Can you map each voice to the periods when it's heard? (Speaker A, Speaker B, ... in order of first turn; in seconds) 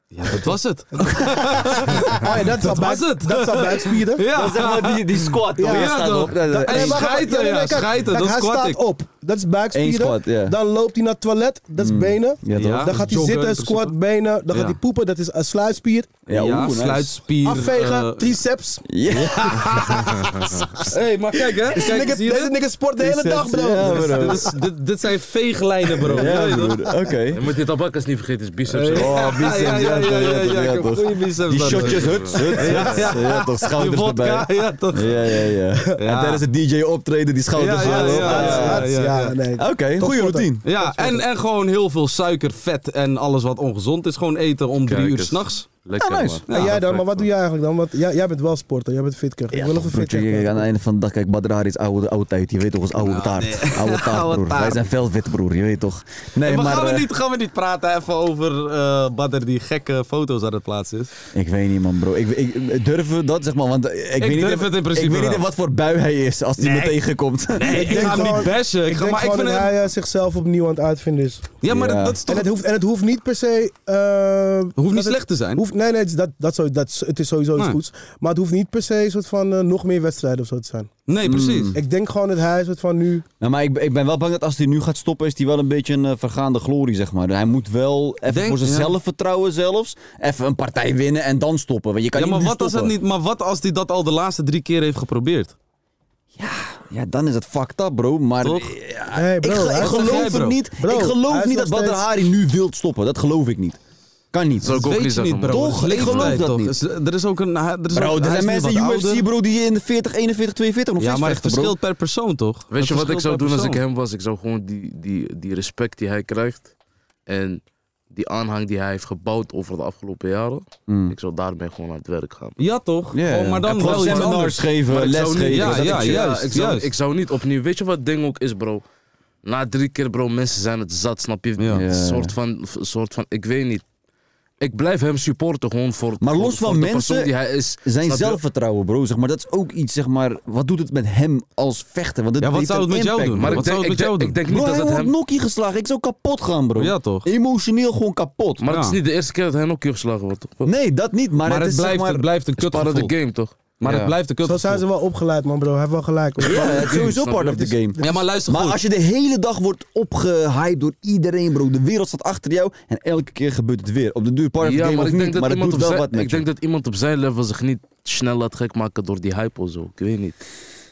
Speaker A: 0.1-8.8, 12.6-13.9, 14.5-14.8, 16.3-18.4, 19.3-20.3, 20.9-22.6, 23.8-26.8, 28.7-35.2, 36.0-36.4, 37.5-39.4, 40.6-45.7, 46.5-47.1, 53.0-54.8, 56.4-61.1, 64.2-65.4, 66.6-67.0, 67.5-69.7, 71.6-72.5, 74.8-75.6, 81.1-81.8, 88.3-88.9, 92.2-95.5, 98.4-98.7, 99.7-100.6, 104.6-109.3, 111.0-113.8, 122.6-124.7, 125.5-126.9, 131.6-131.8, 142.4-144.4, 146.8-147.3, 148.7-149.0, 151.5-153.1, 153.8-154.8, 158.0-158.8
Speaker B: 1.0-1.2, 1.8-4.2, 5.6-16.1, 17.4-18.9, 21.7-24.6, 37.8-41.2, 46.5-50.6, 67.7-71.5, 72.3-80.9, 81.8-83.2, 99.1-102.0, 154.4-157.1
Speaker C: 4.3-7.1, 9.7-10.6, 11.8-13.0, 16.3-17.2, 18.9-20.1, 23.0-24.5, 26.0-27.4, 28.9-40.6, 46.0-46.4, 49.5-57.1, 61.3-68.5, 71.7-72.2, 81.2-81.8, 83.4-92.9, 96.4-103.8, 104.3-104.8, 105.4-106.8, 107.9-111.8, 120.9-121.2, 123.1-126.4, 131.7-132.3, 136.2-137.3, 137.8-143.7, 144.5-148.7, 150.6-152.3, 153.8-154.1, 156.4-166.5
Speaker D: 27.3-29.2, 31.6-33.1, 44.9-46.5, 104.6-106.5, 112.7-116.7, 117.3-122.6, 123.8-128.8, 129.4-133.8, 134.6-138.4, 143.3-145.1, 148.6-150.7, 152.6-153.7, 156.4-157.7, 164.6-170.4